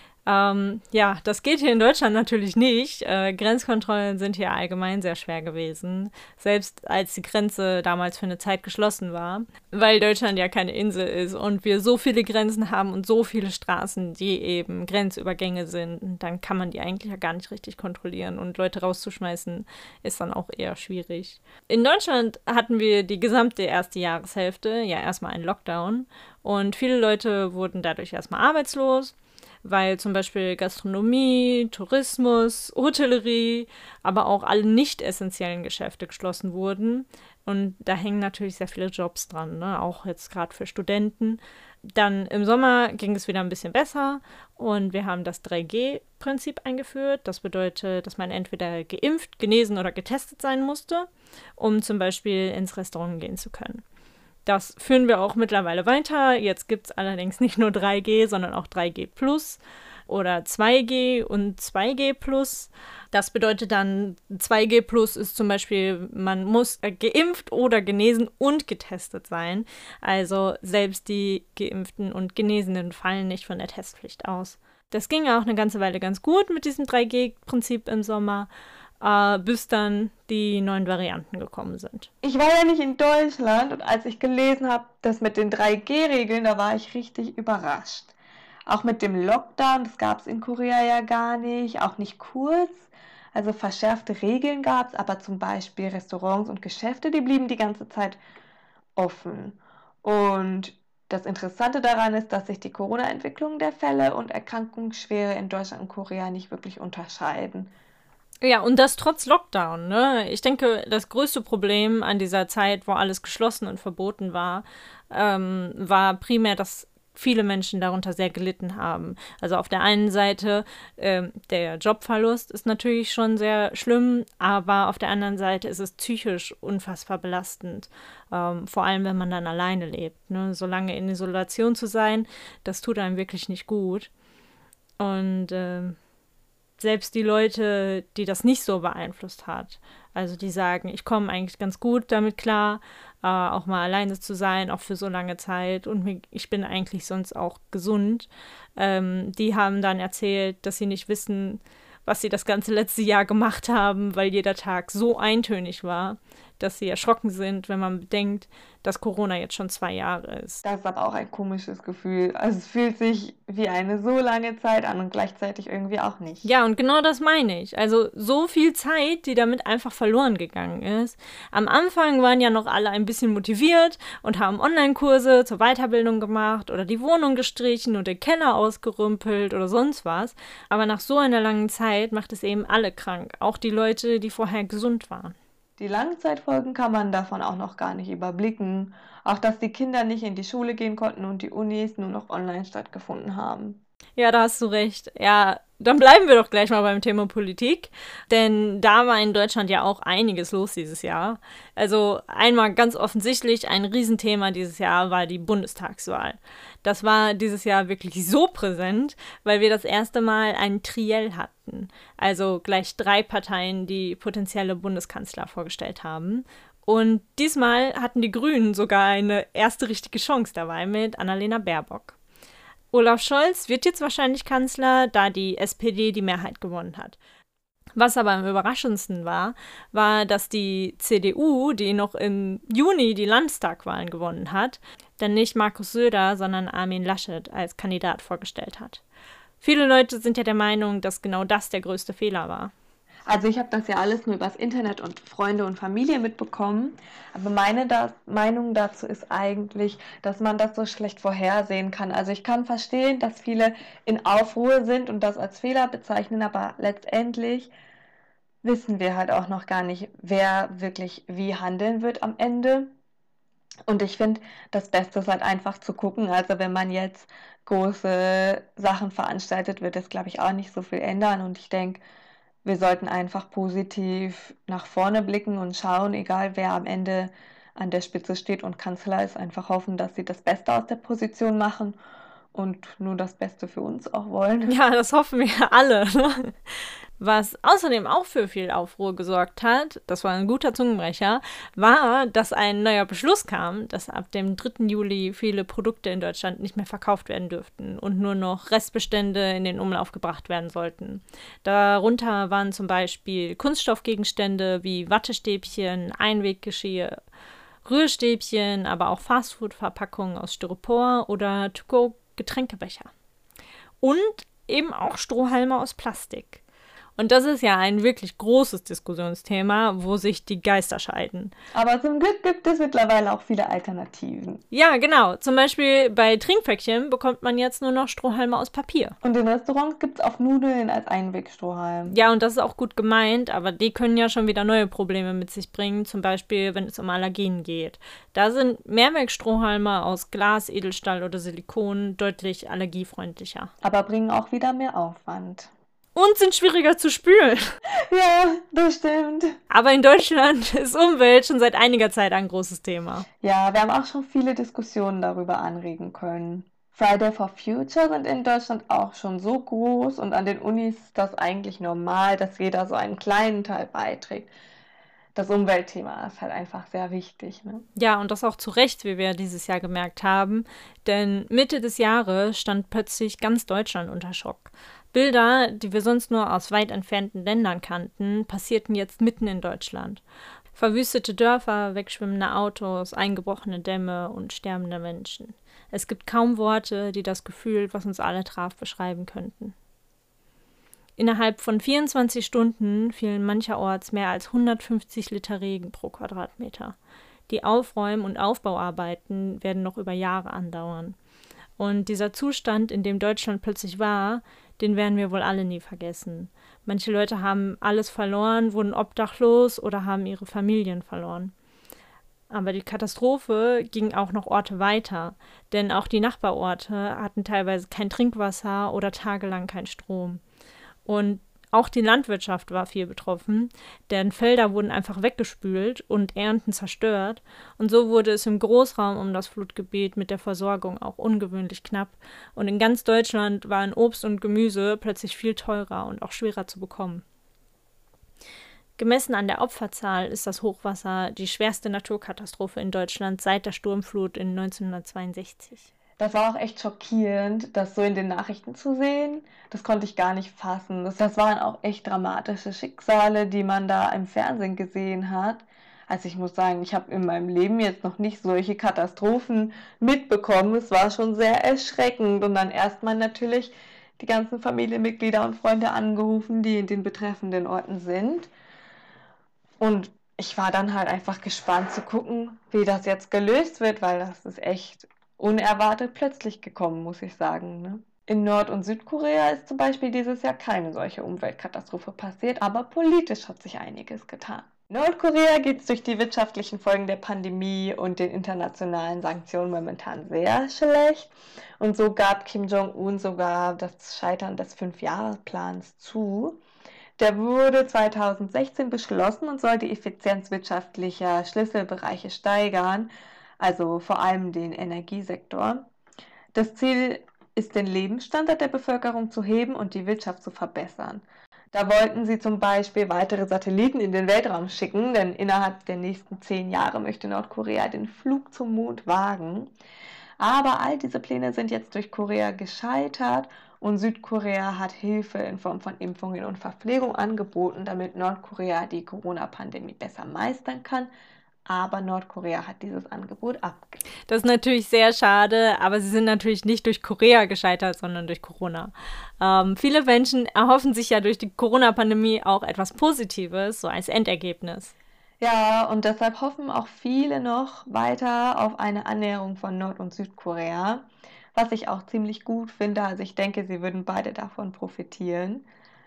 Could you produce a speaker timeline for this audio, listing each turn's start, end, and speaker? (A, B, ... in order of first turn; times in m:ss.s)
0:00.2-0:53.8 A
0:54.4-1:18.5 A
1:19.0-1:22.1 A
1:22.2-1:28.1 B
1:28.7-1:38.2 B
1:39.0-1:47.7 B
1:48.4-2:14.1 A
2:15.0-2:16.0 A
2:16.8-2:40.6 A
2:40.6-2:46.5 B
2:46.4-3:05.3 A
3:05.8-3:13.8 B
3:14.2-3:42.2 A
3:42.9-3:47.2 A
3:48.0-3:59.0 A
3:59.6-4:02.7 A
4:03.3-4:17.7 B
4:18.6-4:22.9 B
4:23.9-4:32.0 B
4:32.6-4:42.0 B
4:42.5-4:44.8 B
4:44.7-4:46.6 A
4:47.2-5:07.2 A
5:07.8-5:13.1 A
5:14.0-5:16.6 A
5:17.2-5:21.5 A
5:21.7-5:24.6 B
5:24.7-5:29.1 A
5:29.2-5:32.2 B
5:32.1-5:43.7 A
5:43.8-5:45.7 B
5:46.1-5:47.8 A
5:48.0-5:49.6 B
5:49.7-5:53.2 A
5:53.4-6:04.5 B
6:05.3-6:07.8 B
6:08.0-6:20.2 A
6:20.8-6:29.7 A
6:31.2-6:36.9 A
6:37.5-6:41.2 A
6:41.8-6:51.5 A
6:52.5-7:00.4 A
7:01.0-7:17.2 A
7:19.0-7:25.9 A
7:26.2-7:48.5 B
7:49.8-8:16.6 B
8:17.2-8:25.9 B
8:26.5-8:39.7 B
8:40.4-8:51.1 B
8:51.7-8:54.0 B
8:54.3-9:04.9 A
9:05.4-9:15.6 B